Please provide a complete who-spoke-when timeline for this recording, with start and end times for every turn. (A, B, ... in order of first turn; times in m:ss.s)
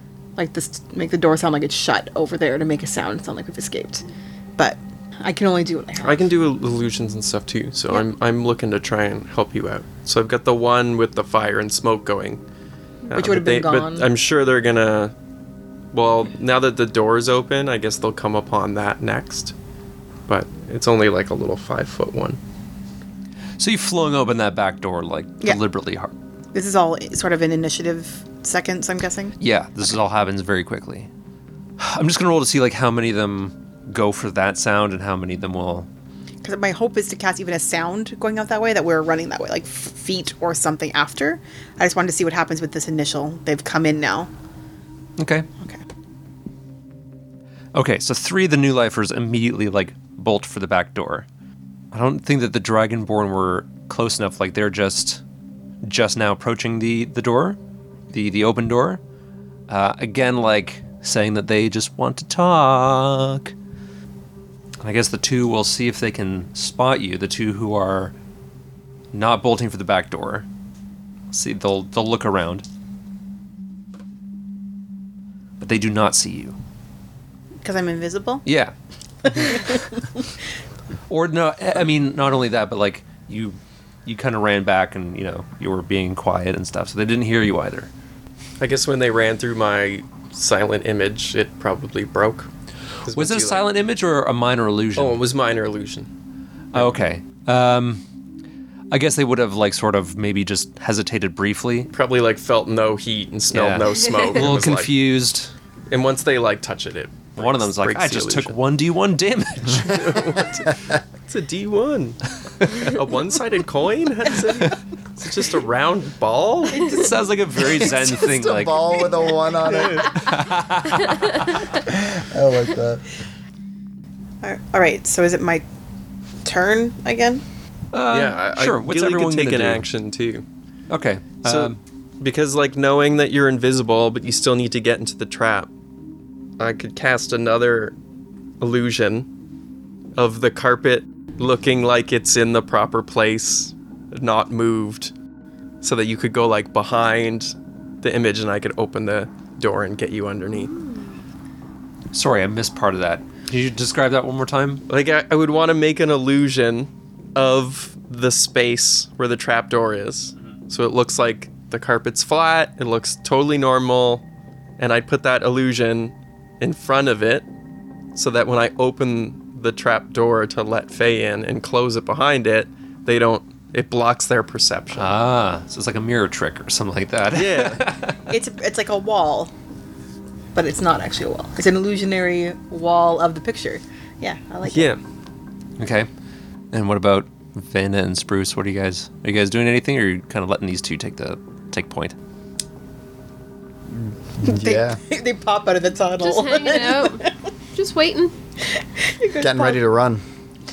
0:00.4-0:06.3 A
0:06.0-0:12.4 B
0:13.1-0:15.1 B
0:13.1-0:14.1 A
0:15.9-0:19.5 B
0:20.3-0:22.4 B
0:23.6-0:26.1 C
0:26.5-0:29.4 A
0:29.4-0:31.1 C
0:31.8-0:35.9 C
0:36.4-0:44.3 A
0:45.2-0:45.5 C
0:47.7-0:51.3 C
0:51.9-0:55.2 C
0:55.8-0:57.6 C
0:58.1-0:59.0 C
0:59.7-1:03.5 C
1:04.8-1:08.1 C
1:09.1-1:10.5 C
1:11.3-1:12.6 C
1:15.6-1:16.6 C
1:17.6-1:18.4 A
1:18.5-1:18.7 C
1:19.3-1:19.8 A
1:21.1-1:27.9 C
1:28.6-1:32.5 B
1:33.0-1:33.6 B
1:33.1-1:35.2 C
1:35.0-1:36.1 B
1:36.7-1:38.0 C
1:38.9-1:41.9 C
1:41.9-1:44.9 B
1:43.5-1:45.5 C
1:45.9-1:48.6 B
1:47.4-1:50.4 C
1:49.7-1:52.2 B
1:52.7-1:57.0 B
1:56.8-1:57.2 A
1:56.9-1:59.1 C
1:57.8-2:00.2 D
1:59.6-2:00.2 B
2:00.0-2:01.4 C
2:01.8-2:03.0 D
2:04.4-2:05.6 A
2:06.4-2:07.4 A
2:07.9-2:09.8 C
2:08.1-2:10.4 B
2:10.9-2:11.8 C
2:11.4-2:15.7 B
2:16.6-2:18.0 B
2:18.6-2:19.3 B
2:20.2-2:25.1 B
2:25.8-2:30.7 B
2:32.1-2:34.8 C
2:34.9-2:44.2 B
2:44.8-2:47.5 B
2:48.1-2:55.2 B
2:54.9-2:58.2 C
2:57.3-2:57.8 B
2:58.3-2:59.5 A
3:00.6-3:04.9 A
3:04.7-3:05.0 B
3:05.8-3:06.1 C
3:06.7-3:12.2 C
3:13.9-3:15.0 D
3:14.4-3:17.3 A
3:16.2-3:18.3 E
3:19.1-3:19.8 A
3:19.4-3:20.2 D